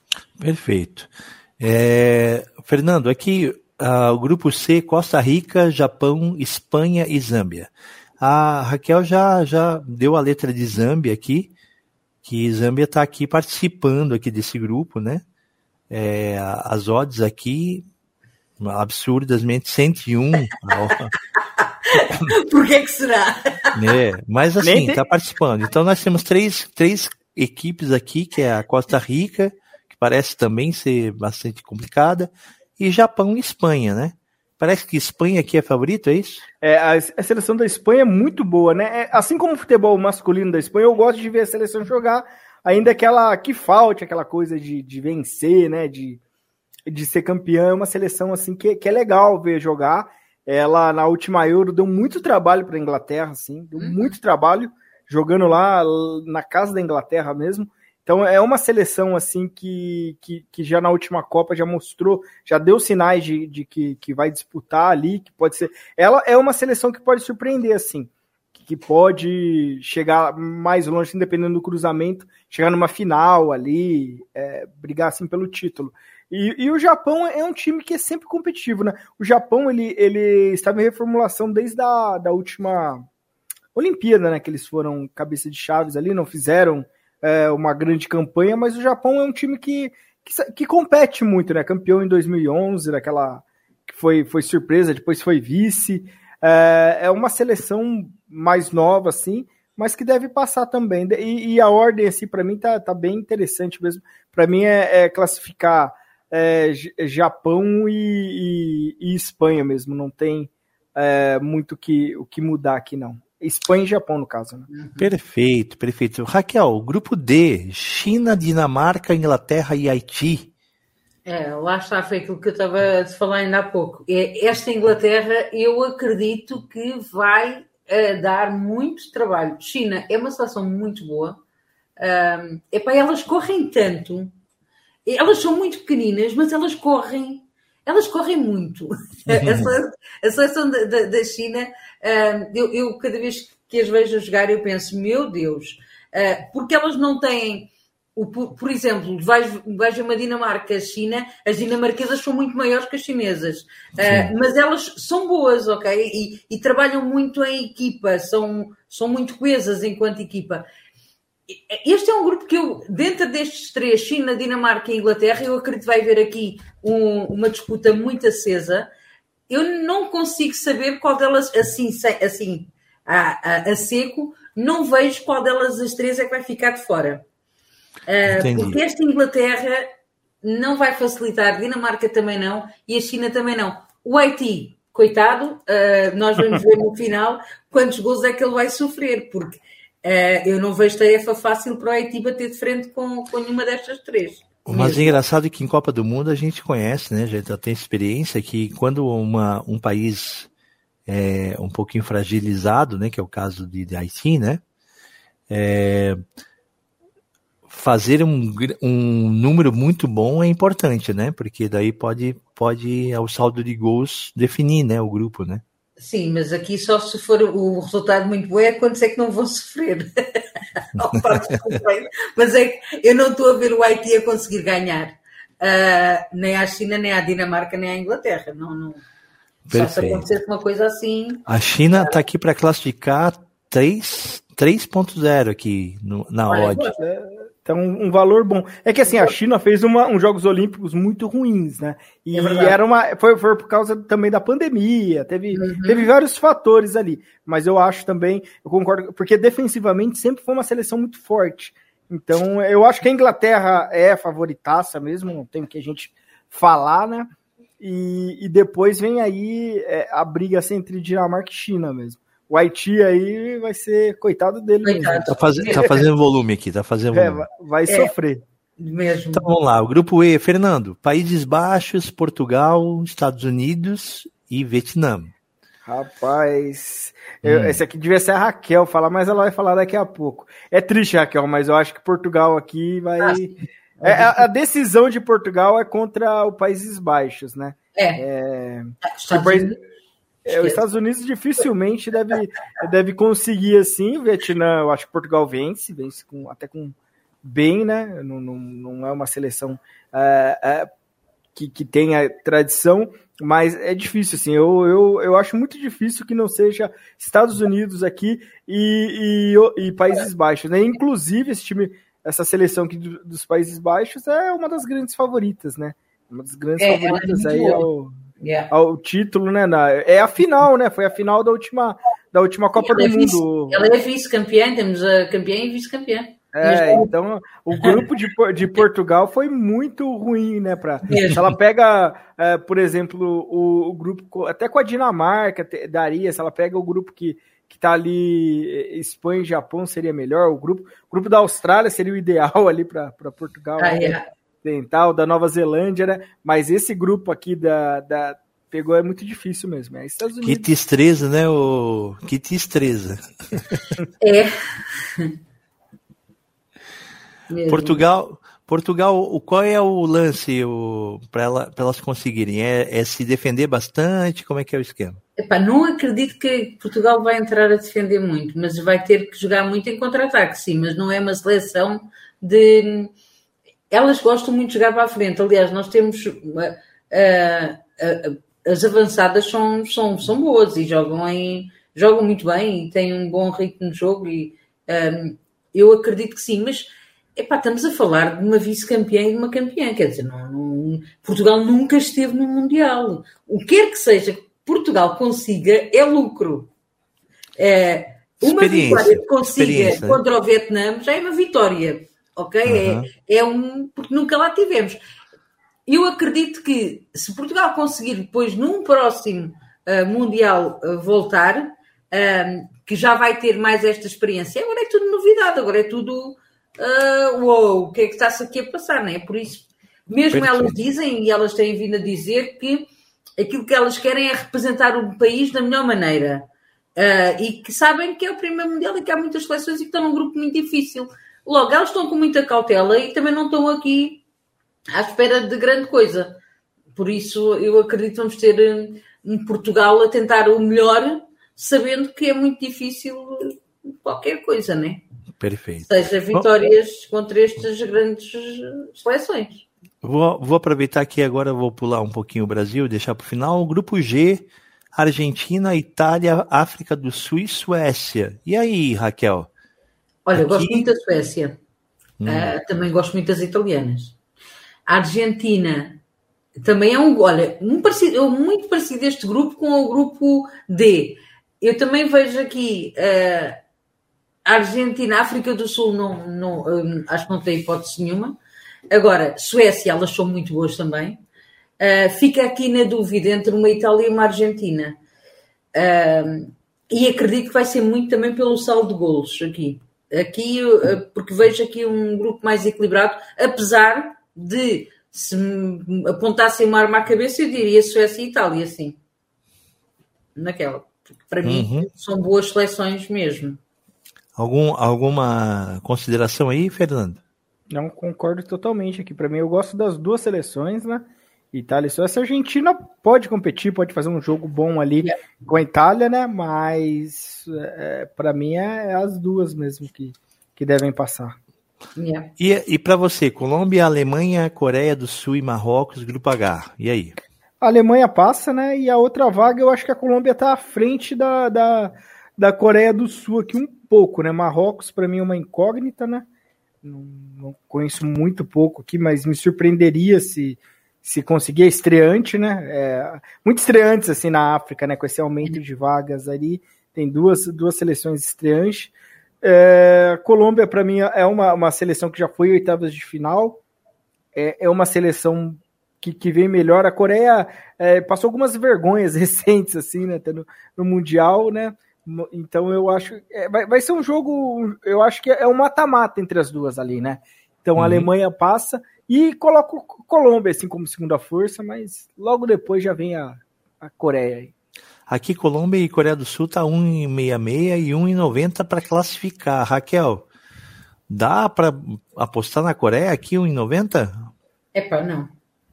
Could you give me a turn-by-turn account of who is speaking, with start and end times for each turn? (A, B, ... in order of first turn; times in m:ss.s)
0:00.4-0:11.5 A
0:12.2-0:15.2 A
0:15.9-0:17.8 A
0:18.6-0:21.1 A
0:21.6-0:23.7 B
0:23.8-0:36.4 A
0:24.6-0:25.0 C
0:36.6-0:46.2 C
0:46.9-1:23.0 C
0:53.8-0:54.1 B
1:23.8-1:54.7 C
1:54.7-1:55.1 B
1:55.0-2:00.5 A
2:01.2-2:11.4 B
2:12.0-2:14.3 B
2:15.0-2:40.6 B
2:19.3-2:19.8 A
2:34.0-2:34.3 A
2:41.5-2:48.9 B
2:49.5-2:57.2 B
2:58.1-2:59.9 B
2:58.3-2:58.8 A
3:00.4-3:15.2 B
3:14.6-3:20.5 A
3:21.1-3:24.6 A
3:25.5-3:26.2 A
3:27.7-3:35.6 A
3:36.0-3:49.0 B
3:41.1-3:41.8 A
3:49.7-3:50.2 A
3:49.7-3:51.4 B
3:51.5-3:56.9 A
3:56.5-3:57.0 B
3:57.0-4:17.3 C
4:02.3-4:02.8 B
4:05.5-4:06.1 B
4:17.8-4:25.9 C
4:24.8-4:26.0 B
4:25.3-4:27.4 A
4:27.1-4:28.4 C
4:28.8-4:29.5 B
4:29.3-4:35.3 A
4:35.8-4:49.7 C
4:37.4-4:37.8 A
4:43.2-4:44.4 B
4:48.0-4:48.2 B
4:49.0-4:49.8 B
4:50.5-4:50.8 B
4:50.5-5:00.9 C
5:01.5-5:18.1 C
5:16.8-5:17.8 B
5:18.4-5:18.7 B
5:18.7-5:23.8 C
5:22.8-5:27.1 B
5:26.5-5:50.6 C
5:31.0-5:31.5 B
5:43.8-5:44.2 B
5:50.4-5:54.0 A
5:54.2-5:55.3 B
5:57.5-5:58.0 B
5:57.7-6:05.2 A
6:05.4-6:13.1 B
6:13.9-6:36.7 B
6:37.6-6:45.0 B
6:38.4-6:40.2 A
6:42.7-6:43.1 A
6:45.9-7:02.9 B
7:00.3-7:00.7 A
7:03.4-7:06.4 B
7:07.0-7:14.2 B
7:14.9-7:16.4 B
7:17.0-7:25.0 B
7:25.4-7:26.5 A
7:25.8-7:29.7 B
7:30.0-7:39.5 A
7:40.2-7:41.6 B
7:40.3-7:40.9 A
7:42.2-7:42.5 A
7:42.2-7:44.2 B
7:44.9-7:46.0 B
7:46.6-7:53.6 B
7:54.5-7:58.4 B
7:58.9-8:01.2 B
8:01.8-8:05.0 B
8:05.8-8:19.0 B
8:20.4-8:23.6 B
8:21.4-8:21.9 A
8:24.4-8:27.2 A
8:27.7-8:41.4 C
8:42.0-8:42.3 B
8:42.4-8:47.2 A
8:47.6-8:56.2 C
8:56.8-9:13.6 C
9:14.3-9:34.5 C
9:27.8-9:28.1 A
9:35.1-9:40.2 A
9:41.1-9:44.3 A
9:44.7-9:45.3 B